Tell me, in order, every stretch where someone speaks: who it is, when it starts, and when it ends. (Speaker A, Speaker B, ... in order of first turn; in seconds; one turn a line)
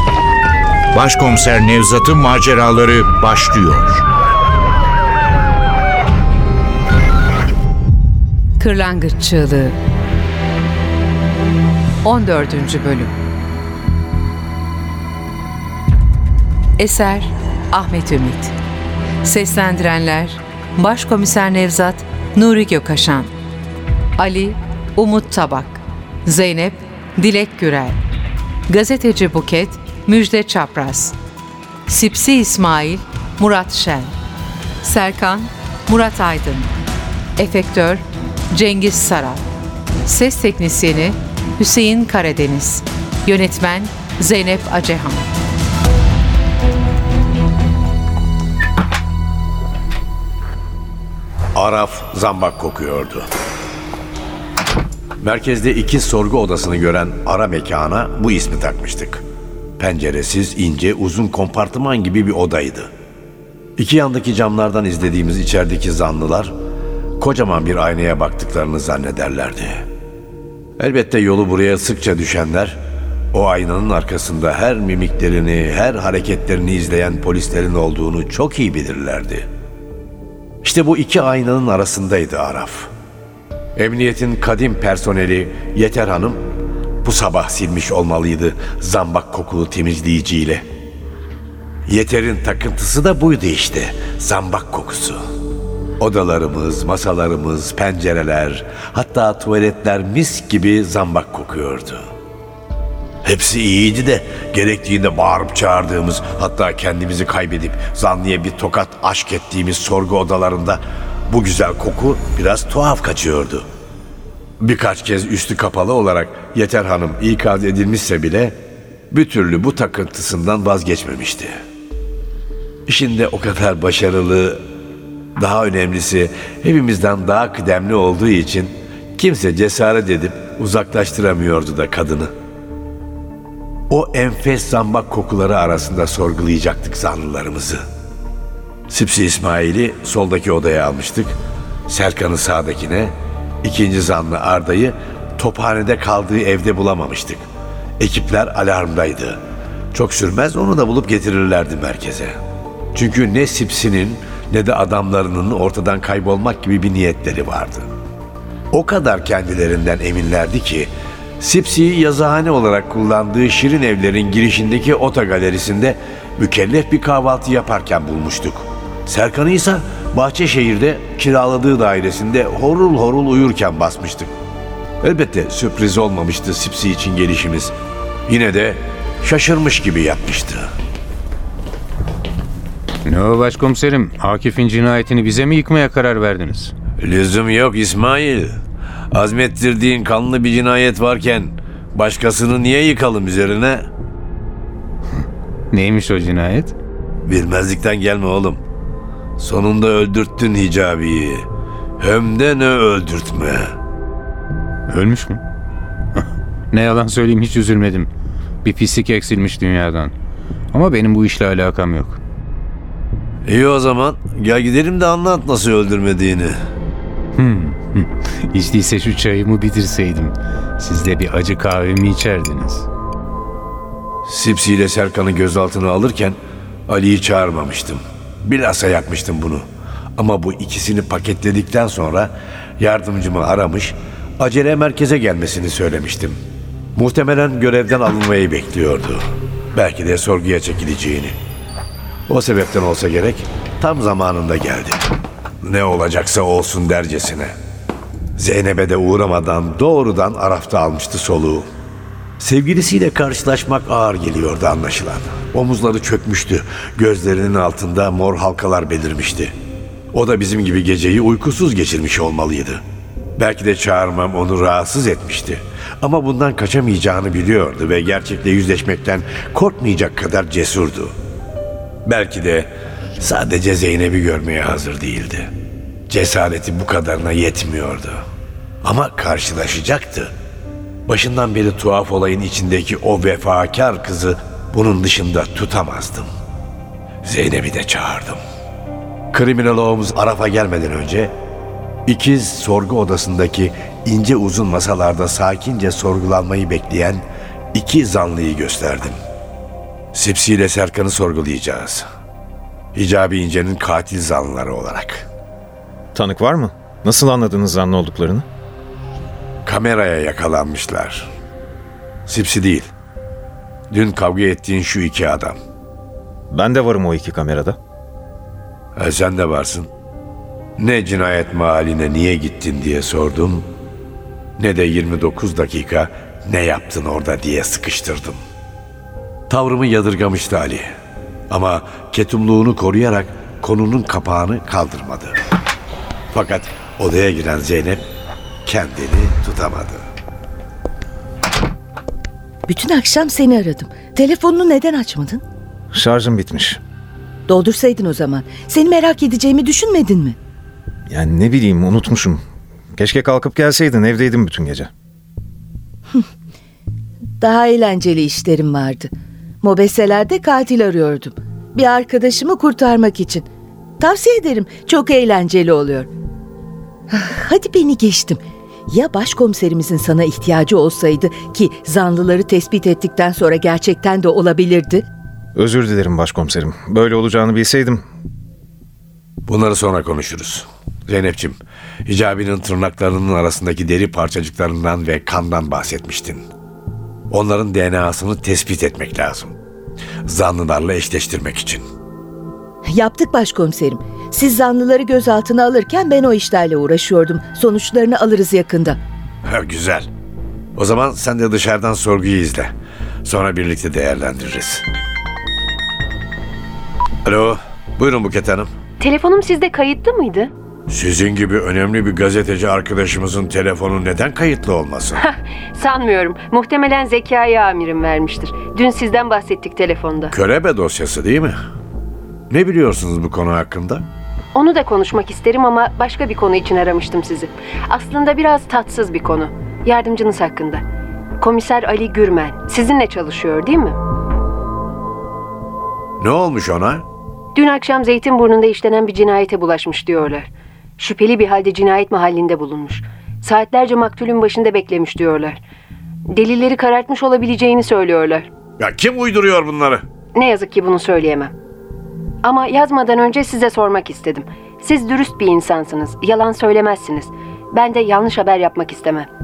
Speaker A: 0.9-4.0
Speaker B: 8.6-9.8
Speaker B: 12.0-13.1
Speaker B: 16.8-18.5
Speaker B: 19.2-23.3
Speaker B: 24.2-28.0
Speaker B: 28.7-31.2
Speaker B: 31.9-34.1
Speaker B: 34.8-36.7
Speaker B: 37.4-39.4
Speaker B: 40.0-45.3
Speaker C: 51.5-53.2
Speaker C: 55.2-59.2
Speaker C: 59.8-62.9
Speaker C: 63.8-66.5
Speaker C: 67.2-69.9
Speaker C: 70.8-72.8
Speaker C: 73.3-79.5
Speaker C: 80.6-82.9
Speaker C: 83.8-86.4
Speaker C: 87.0-90.7
Speaker C: 91.9-95.2
Speaker C: 96.0-102.1
Speaker C: 103.2-113.7
Speaker C: 114.6-118.6
Speaker C: 119.1-121.5
Speaker C: 122.9-124.6
Speaker C: 125.4-132.3
Speaker C: 133.9-137.8
Speaker C: 138.9-147.4
Speaker C: 148.0-149.4
Speaker C: 149.9-152.4
Speaker C: 152.9-157.9
Speaker C: 158.7-174.3
Speaker C: 175.0-177.7
Speaker C: 178.3-180.7
Speaker D: 183.1-186.7
Speaker C: 187.0-188.6
Speaker C: 189.1-193.9
Speaker D: 195.7-196.8
Speaker C: 197.2-198.6
Speaker C: 199.4-201.5
Speaker C: 202.0-203.7
Speaker D: 204.9-205.4
Speaker D: 206.7-208.1
Speaker D: 208.6-210.1
Speaker D: 210.7-212.2
Speaker C: 213.5-216.6
Speaker D: 217.4-222.9
Speaker C: 224.3-226.4
Speaker C: 226.9-229.7
Speaker C: 230.2-236.4
Speaker C: 237.0-239.2
Speaker C: 239.7-241.4
Speaker C: 242.3-245.0
Speaker C: 245.6-247.6
Speaker C: 248.4-251.7
Speaker C: 252.4-259.5
Speaker C: 260.1-262.8
Speaker C: 263.4-271.1
Speaker C: 272.1-275.5
Speaker C: 276.1-278.2
Speaker C: 278.8-280.3
Speaker C: 281.1-286.3
Speaker C: 287.2-288.4
Speaker C: 289.3-291.3
Speaker C: 292.1-299.2
Speaker C: 300.1-302.1
Speaker C: 302.9-305.3
Speaker E: 306.1-308.4
Speaker C: 309.7-311.3
Speaker C: 312.3-312.9
Speaker C: 313.9-315.6
Speaker E: 316.5-317.8
Speaker C: 319.0-319.9
Speaker C: 320.8-323.7
Speaker C: 324.6-328.4
Speaker C: 329.5-330.9
Speaker C: 331.5-335.4
Speaker C: 336.3-338.0
Speaker C: 338.7-340.0
Speaker F: 342.7-345.4
Speaker E: 345.9-346.8
Speaker F: 347.5-350.4
Speaker E: 351.1-352.4
Speaker E: 353.0-354.9
Speaker F: 357.4-359.1
Speaker F: 359.6-363.5
Speaker F: 364.0-366.1
Speaker F: 367.1-375.0
Speaker E: 375.6-378.0
Speaker C: 379.5-386.4
Speaker C: 387.3-389.6
Speaker C: 390.3-391.8
Speaker F: 392.9-399.0
Speaker C: 399.5-400.1
Speaker C: 400.8-402.7
Speaker C: 403.2-404.8
Speaker C: 407.2-408.7
Speaker G: 409.0-410.5
Speaker C: 410.9-415.2
Speaker G: 415.2-420.4
Speaker C: 420.3-421.6
Speaker C: 422.5-424.1
Speaker G: 424.6-430.8
Speaker G: 431.4-434.0
Speaker C: 436.2-437.1
Speaker G: 437.6-445.6
Speaker G: 446.3-448.5
Speaker C: 448.8-450.0
Speaker G: 450.4-451.5
Speaker G: 452.4-459.3